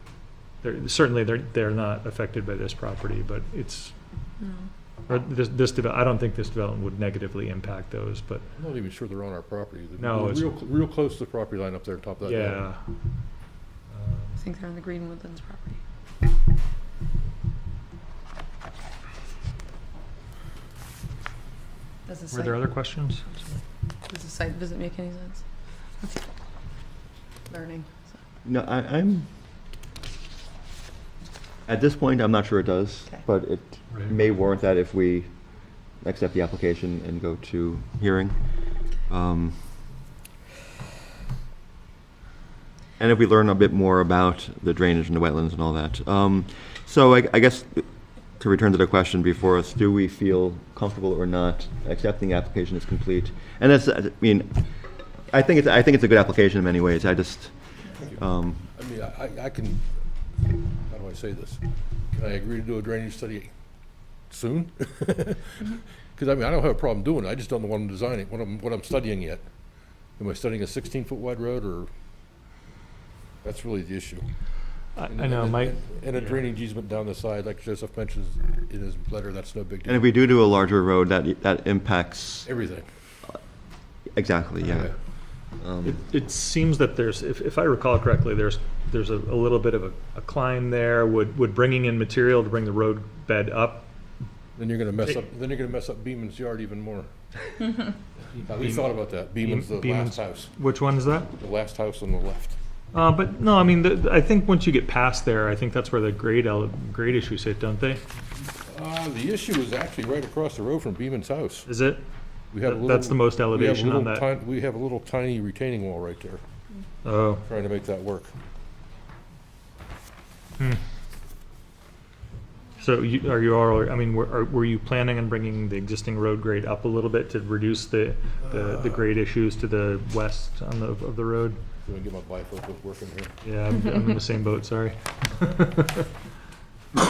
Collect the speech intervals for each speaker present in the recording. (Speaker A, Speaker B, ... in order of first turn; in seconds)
Speaker A: 0.6-3.9, 5.1-8.4, 10.0-10.5, 12.2-12.8, 13.9-14.4, 22.3-23.6, 75.0-76.4, 85.8-93.9, 98.4-101.3, 102.9-108.0, 111.7-112.0, 112.6-114.3, 117.0-117.4, 122.8-131.6, 133.4-136.1
Speaker B: 4.4-4.7, 14.4-15.8, 22.1-22.6, 24.1-25.4, 27.5-28.1
Speaker C: 8.6-12.7, 58.8-59.8, 60.9-61.6, 62.1-63.5, 64.3-69.4, 70.2-71.9, 73.4-74.3, 75.1-80.1, 82.4-82.8, 94.5-97.1, 98.3-100.5, 101.4-102.6, 108.7-111.7, 112.5-116.4, 117.4-118.3, 131.8-133.3
Speaker D: 28.4-29.3, 31.6-35.3, 36.0-39.6, 43.0-47.9, 48.4-54.6, 55.3-58.7, 79.8-82.5, 84.1-84.9, 85.6-86.0